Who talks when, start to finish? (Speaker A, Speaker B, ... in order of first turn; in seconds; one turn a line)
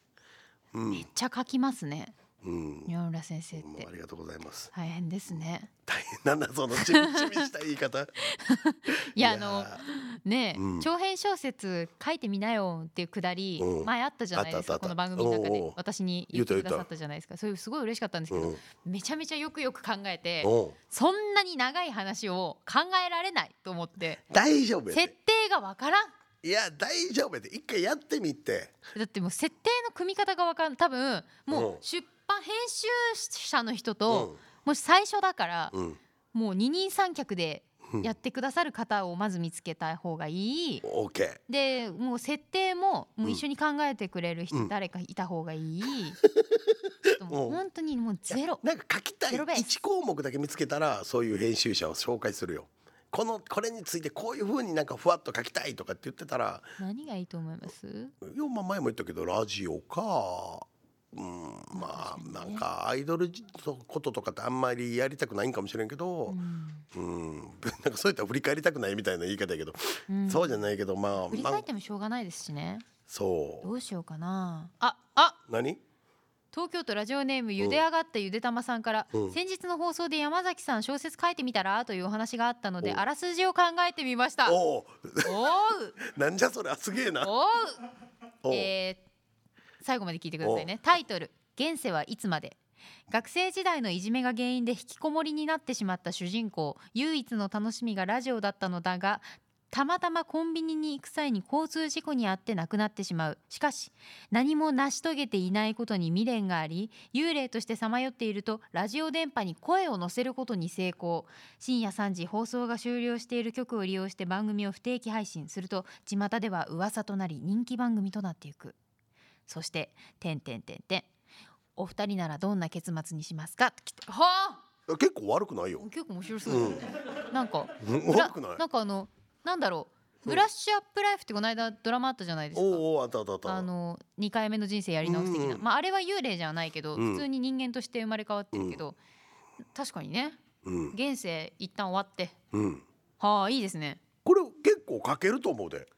Speaker A: 0.7-1.1
Speaker B: 0.9-2.1
Speaker A: 2.4-2.9
Speaker B: 2.9-3.9
Speaker A: 3.6-4.7
Speaker B: 4.7-5.7
Speaker A: 5.9-8.1
Speaker B: 6.7-7.5
Speaker B: 8.2-24.2
Speaker A: 9.2-9.8
Speaker A: 10.5-10.9
Speaker A: 13.6-15.8
Speaker A: 16.3-16.9
Speaker A: 18.3-18.6
Speaker A: 20.4-20.8
Speaker A: 24.3-25.1
Speaker B: 24.9-26.1
Speaker A: 26.4-28.7
Speaker B: 28.9-35.8
Speaker A: 31.5-31.8
Speaker A: 34.1-34.4
Speaker A: 35.7-36.0
Speaker B: 36.3-40.8
Speaker A: 40.8-41.4
Speaker B: 41.5-46.2
Speaker A: 46.4-47.6
Speaker B: 47.1-48.6
Speaker A: 48.3-56.7
Speaker B: 49.3-49.7
Speaker B: 56.8-58.1
Speaker A: 58.2-66.4
Speaker B: 61.7-62.6
Speaker B: 66.3-66.8
Speaker A: 66.9-71.7
Speaker B: 70.1-70.6
Speaker B: 71.3-72.8
Speaker A: 73.1-73.7
Speaker B: 73.6-75.4
Speaker A: 75.5-75.8
Speaker B: 76.5-84.6
Speaker A: 84.4-85.3
Speaker B: 85.2-86.0
Speaker A: 86.0-87.3
Speaker B: 87.2-87.8
Speaker A: 88.4-88.7
Speaker B: 88.5-89.0
Speaker B: 89.8-92.6
Speaker A: 90.4-90.7
Speaker B: 93.1-118.8
Speaker B: 119.5-121.1
Speaker B: 121.8-124.6
Speaker A: 124.9-125.8
Speaker B: 125.8-132.8
Speaker A: 126.4-126.8
Speaker A: 127.8-128.6
Speaker A: 132.5-133.7
Speaker B: 133.4-139.0
Speaker A: 135.0-135.6
Speaker A: 136.9-137.2
Speaker A: 138.5-138.8
Speaker B: 139.7-142.3
Speaker A: 140.6-140.9
Speaker A: 142.5-142.8
Speaker B: 143.2-144.0
Speaker A: 144.2-145.9